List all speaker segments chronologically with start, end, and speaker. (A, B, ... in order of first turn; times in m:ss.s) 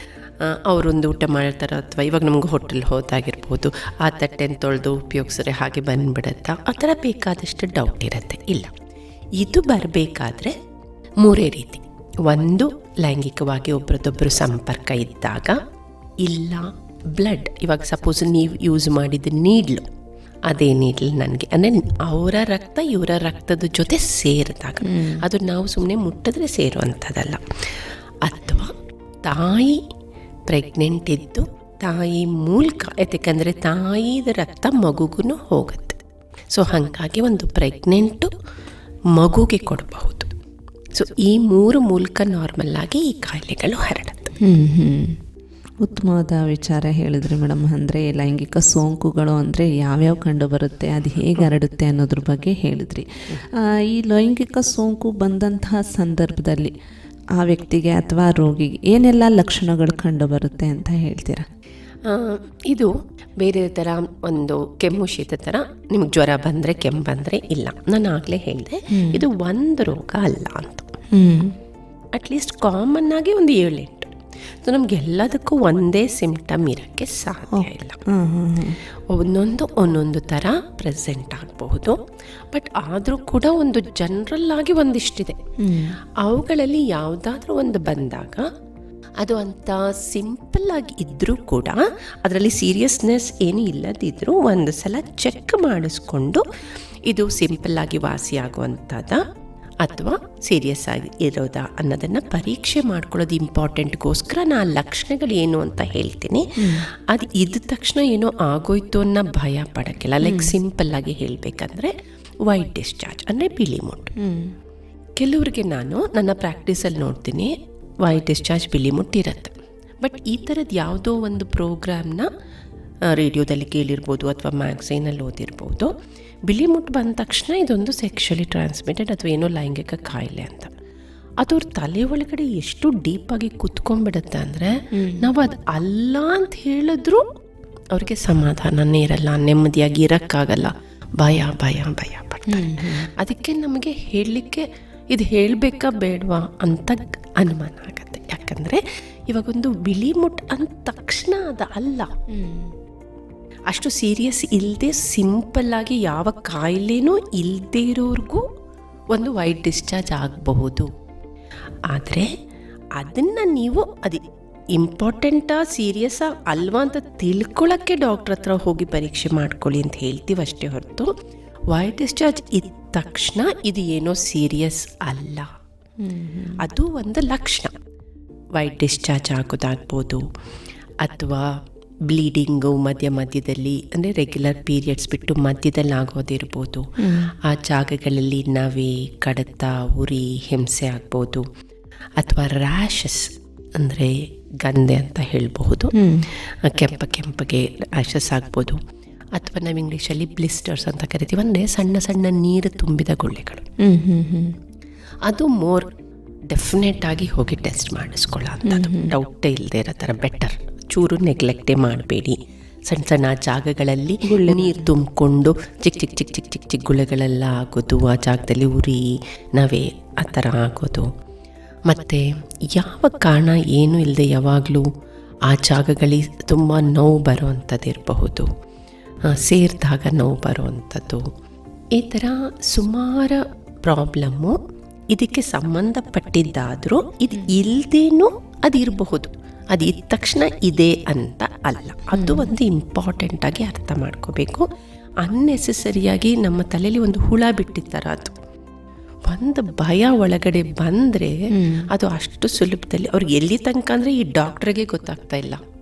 0:00.4-0:08.7 A
0:09.4-0:10.6 A
0:11.2-0:15.6 A
0:16.2-0:19.9 A
0:20.5-0:27.7 A
0:24.8-0:25.2 B
0:28.2-0:29.8 A
0:30.5-0:36.0 A
0:36.5-0:38.3 A
0:39.1-0:40.3 A
0:40.9-0:44.4 A
0:44.4-0:45.2 B
0:45.8-0:56.7 B
0:57.4-1:01.5 B
1:02.0-1:10.9 A
1:08.9-1:09.2 B
1:11.1-1:11.6 B
1:12.2-1:18.0 A
1:17.5-1:18.8 B
1:19.1-1:22.0 A
1:22.5-1:25.4 A
1:25.6-1:26.0 B
1:26.2-1:28.5 A
1:29.2-1:36.4 A
1:37.1-1:39.2 A
1:39.8-1:46.5 A
1:46.6-1:46.8 B
1:47.1-1:51.9 A
1:50.2-1:50.5 B
1:52.4-1:54.2 A
1:54.2-1:54.5 B
1:55.2-2:02.3 A
2:03.1-2:05.9 A
2:06.5-2:10.7 A
2:11.4-2:17.2 A
2:14.9-2:15.3 B
2:17.9-2:32.1 A
2:22.5-2:23.1 B
2:32.3-2:32.7 B
2:33.7-2:38.4 A
2:39.1-2:40.9 A
2:41.9-2:42.3 A
2:43.0-2:51.1 A
2:51.7-2:55.5 A
2:56.0-2:56.6 B
2:56.6-2:57.8 A
2:58.5-3:00.2 A
3:01.0-3:06.9 A
3:07.0-3:07.3 B
3:07.4-3:11.5 A
3:12.2-3:16.0 A
3:15.9-3:16.3 B
3:16.6-3:18.8 A
3:19.3-3:23.7 A
3:23.8-3:24.6 B
3:25.2-3:25.9 A
3:26.5-3:41.1 A
3:28.6-3:29.1 B
3:34.3-3:34.9 B
3:41.9-3:44.9 A
3:45.5-3:48.5 A
3:49.2-3:51.3 A
3:52.0-3:54.6 A
3:55.1-4:04.7 A
4:02.1-4:02.5 B
4:05.2-4:08.4 A
4:09.3-4:15.6 A
4:11.5-4:11.9 B